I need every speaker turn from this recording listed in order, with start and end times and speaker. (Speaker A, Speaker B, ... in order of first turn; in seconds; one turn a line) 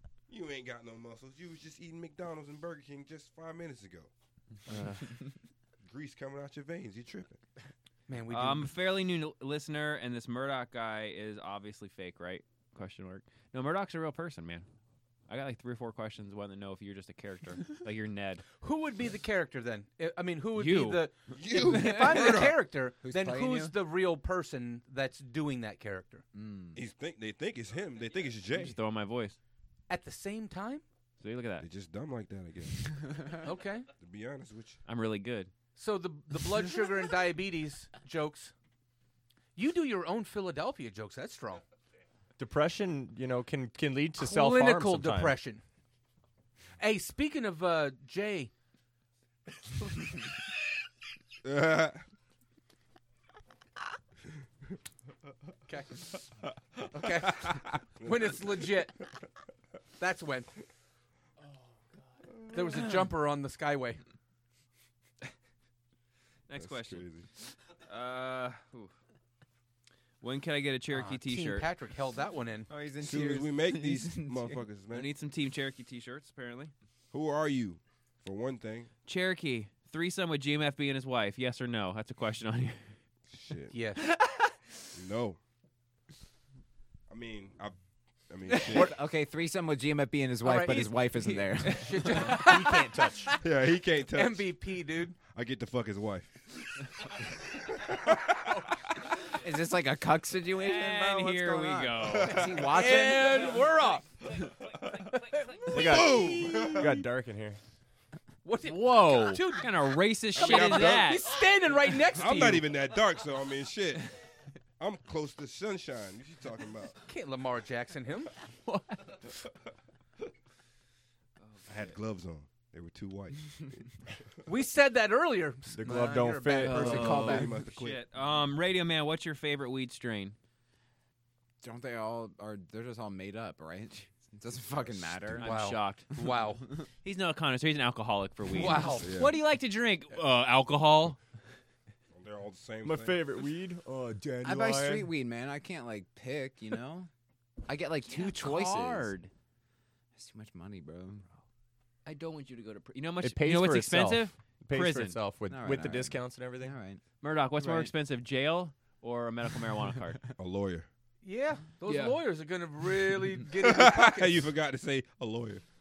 Speaker A: 0.3-4.1
Speaker B: 4.7-5.1
Speaker A: 5.9-7.4
Speaker C: 8.1-8.7
Speaker B: 8.3-14.7
Speaker B: 15.3-18.4
Speaker C: 18.6-26.2
Speaker B: 20.6-21.0
Speaker A: 21.3-22.6
Speaker B: 21.8-22.4
Speaker D: 23.0-23.8
Speaker D: 26.3-26.8
Speaker A: 26.8-28.8
Speaker B: 28.5-29.4
Speaker C: 29.9-30.8
Speaker B: 31.2-31.7
Speaker A: 31.6-33.3
Speaker C: 33.4-33.9
Speaker A: 34.0-34.8
Speaker B: 34.9-35.5
Speaker C: 35.8-38.5
Speaker C: 39.6-41.6
Speaker E: 42.4-45.4
Speaker C: 44.2-45.6
Speaker C: 46.8-48.5
Speaker A: 51.5-52.0
Speaker C: 55.7-56.0
Speaker C: 56.9-59.0
Speaker C: 60.0-60.5
Speaker C: 62.5-64.0
Speaker B: 66.5-67.1
Speaker A: 66.5-67.3
Speaker B: 67.8-68.9
Speaker B: 70.2-71.7
Speaker C: 70.9-72.7
Speaker D: 72.7-74.7
Speaker A: 73.0-75.1
Speaker B: 74.9-76.7
Speaker A: 77.1-78.9
Speaker B: 79.1-82.8
Speaker A: 83.3-83.7
Speaker C: 83.7-84.0
Speaker A: 85.0-85.4
Speaker A: 87.1-87.8
Speaker A: 88.3-89.0
Speaker D: 88.7-92.2
Speaker C: 90.4-90.9
Speaker B: 90.6-92.4
Speaker C: 91.7-93.1
Speaker E: 92.3-93.3
Speaker A: 93.4-94.6
Speaker C: 94.1-95.2
Speaker A: 95.2-96.4
Speaker A: 97.8-98.5
Speaker D: 99.3-103.6
Speaker B: 100.6-102.5
Speaker A: 102.0-102.6
Speaker C: 102.6-104.1
Speaker C: 105.3-107.0
Speaker E: 105.7-107.6
Speaker A: 105.7-107.0
Speaker C: 108.4-112.7
Speaker B: 108.7-111.3
Speaker A: 110.3-111.4
Speaker A: 112.1-114.1
Speaker A: 114.8-117.0
Speaker C: 117.1-118.3
Speaker B: 121.4-121.9
Speaker A: 121.7-123.8
Speaker C: 124.5-127.5
Speaker E: 125.8-127.2
Speaker B: 126.6-130.4
Speaker D: 126.8-127.5
Speaker A: 127.1-128.0
Speaker D: 131.6-135.5
Speaker A: 134.8-135.4
Speaker B: 135.4-136.1
Speaker C: 135.4-136.6
Speaker B: 137.0-141.2
Speaker C: 138.5-139.1
Speaker A: 139.0-139.4
Speaker A: 142.1-143.4
Speaker E: 142.8-145.1
Speaker D: 144.4-147.1
Speaker D: 147.7-149.1
Speaker B: 148.1-149.3
Speaker D: 150.2-151.3
Speaker B: 152.1-155.2
Speaker E: 153.2-156.7
Speaker D: 155.5-157.0
Speaker B: 157.2-160.2
Speaker A: 160.4-160.9
Speaker C: 161.2-164.5
Speaker B: 161.8-162.2
Speaker A: 163.6-165.6